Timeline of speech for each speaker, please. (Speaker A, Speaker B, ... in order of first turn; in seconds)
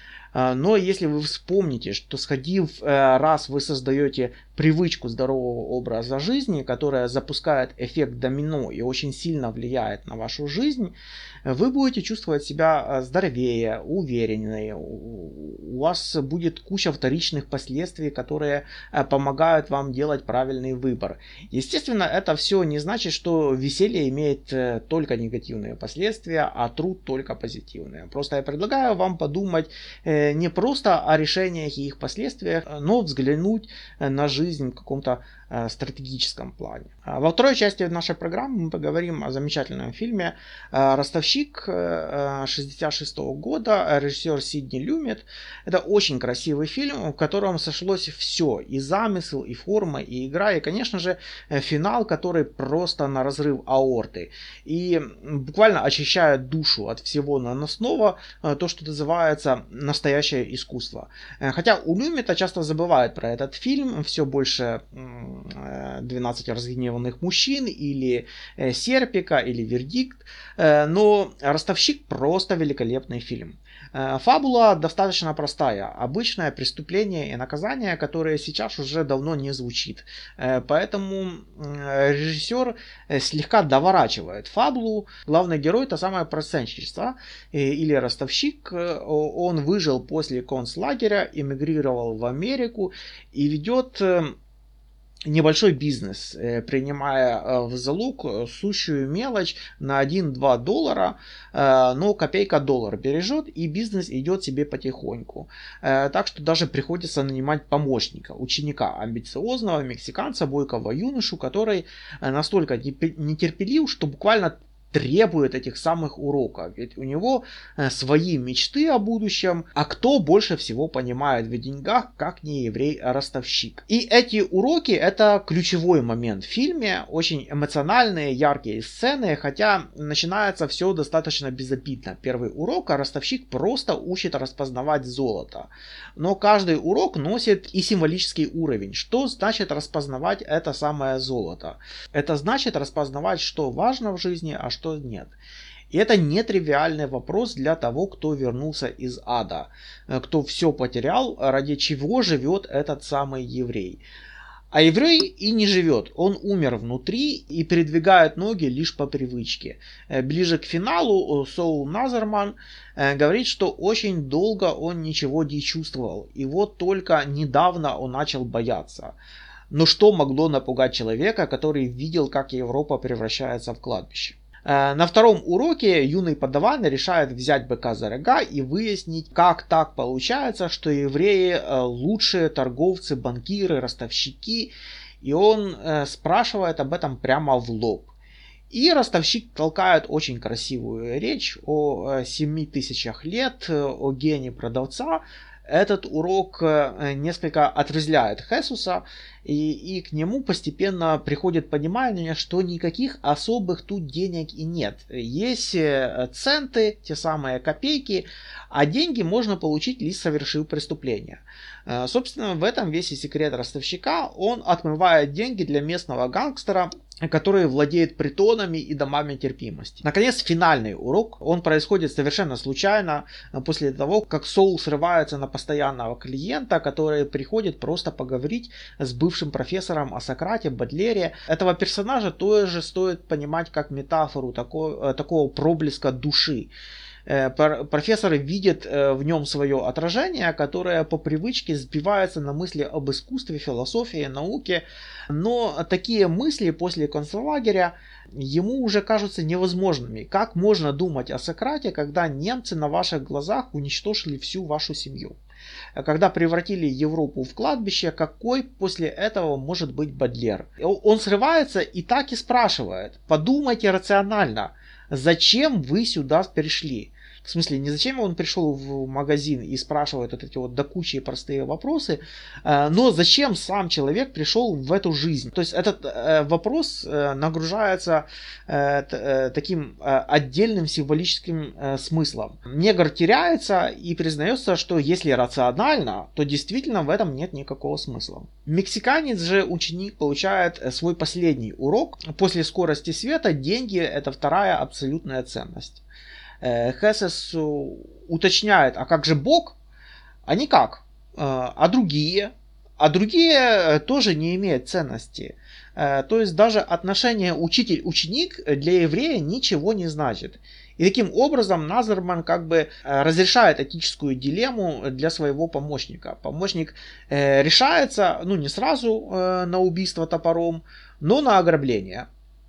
Speaker A: 0.3-10.9, 11.4-94.3, 95.3-145.3, 145.9-154.0, 154.7-169.1, 169.7-188.1, 188.7-236.7, 237.3-255.4, 255.9-296.0, 296.6-299.8, 300.4-322.3